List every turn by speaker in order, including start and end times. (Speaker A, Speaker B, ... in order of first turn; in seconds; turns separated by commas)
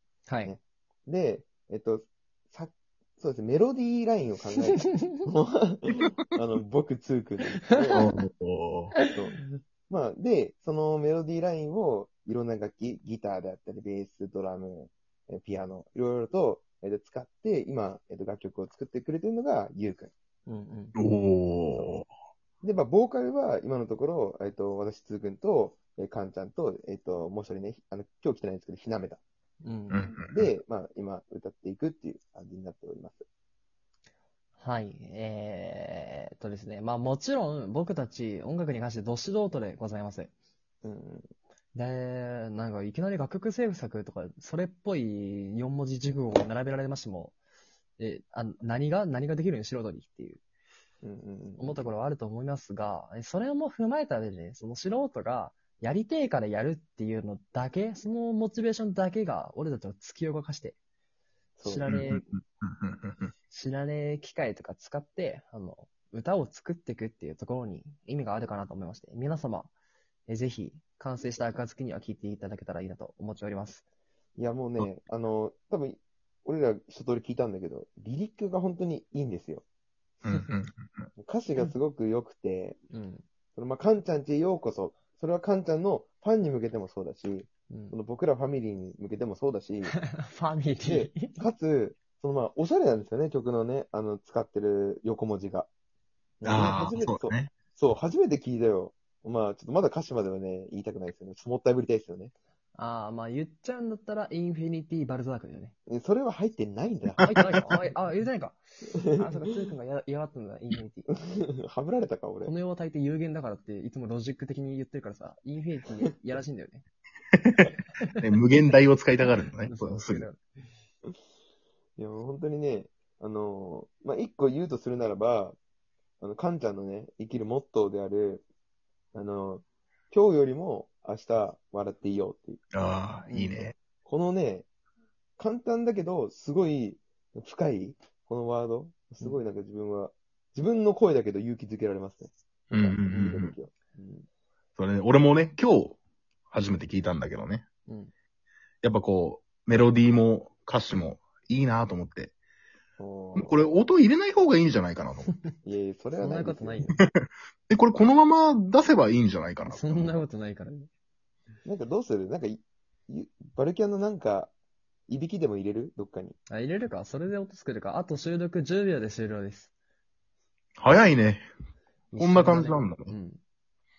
Speaker A: 0.3-0.5, Speaker B: 0.4-8.0, Speaker C: 7.9-8.9, Speaker A: 9.0-9.6, Speaker B: 9.1-20.1, Speaker A: 20.4-20.9, Speaker C: 20.9-22.1, Speaker B: 21.7-22.0, Speaker B: 22.6-29.2, Speaker A: 29.6-30.1, Speaker C: 29.9-30.4, Speaker B: 30.2-33.2, Speaker A: 34.6-40.3, Speaker B: 40.8-41.3, Speaker A: 41.7-47.4, Speaker A: 48.0-50.4, Speaker B: 51.0-51.9, Speaker A: 51.6-60.8, Speaker B: 61.6-61.9, Speaker A: 61.6-62.3, Speaker C: 61.9-63.3, Speaker A: 63.5-69.7, Speaker A: 70.3-73.8, Speaker B: 74.4-79.6, Speaker C: 80.2-81.1, Speaker B: 81.2-82.8, Speaker A: 82.9-83.2, Speaker B: 83.5-89.9, Speaker A: 87.7-88.0, Speaker A: 89.9-91.4, Speaker B: 90.8-95.7, Speaker B: 96.4-102.3, Speaker C: 96.4-97.5, Speaker A: 102.7-105.7, Speaker B: 105.9-107.7, Speaker A: 107.2-111.1, Speaker C: 107.3-107.6, Speaker B: 111.3-112.5, Speaker A: 112.4-116.8, Speaker C: 117.4-120.3, Speaker A: 119.6-120.4, Speaker B: 122.0-125.6, Speaker B: 126.2-128.4, Speaker B: 129.1-132.6, Speaker C: 132.7-133.7, Speaker A: 133.3-133.7, Speaker B: 134.0-134.7, Speaker B: 135.4-144.2, Speaker C: 142.7-143.5, Speaker A: 143.1-143.4, Speaker C: 144.8-146.0, Speaker C: 146.5-147.6, Speaker A: 147.9-148.1, Speaker C: 148.8-152.3, Speaker B: 153.0-153.7, Speaker C: 153.3-155.3, Speaker B: 155.6-156.8, Speaker A: 156.2-157.0, Speaker C: 157.7-160.2, Speaker A: 159.7-160.9, Speaker B: 161.6-164.5, Speaker B: 165.1-166.4, Speaker A: 166.5-169.7, Speaker C: 170.8-171.4, Speaker A: 172.1-173.4, Speaker C: 172.2-173.1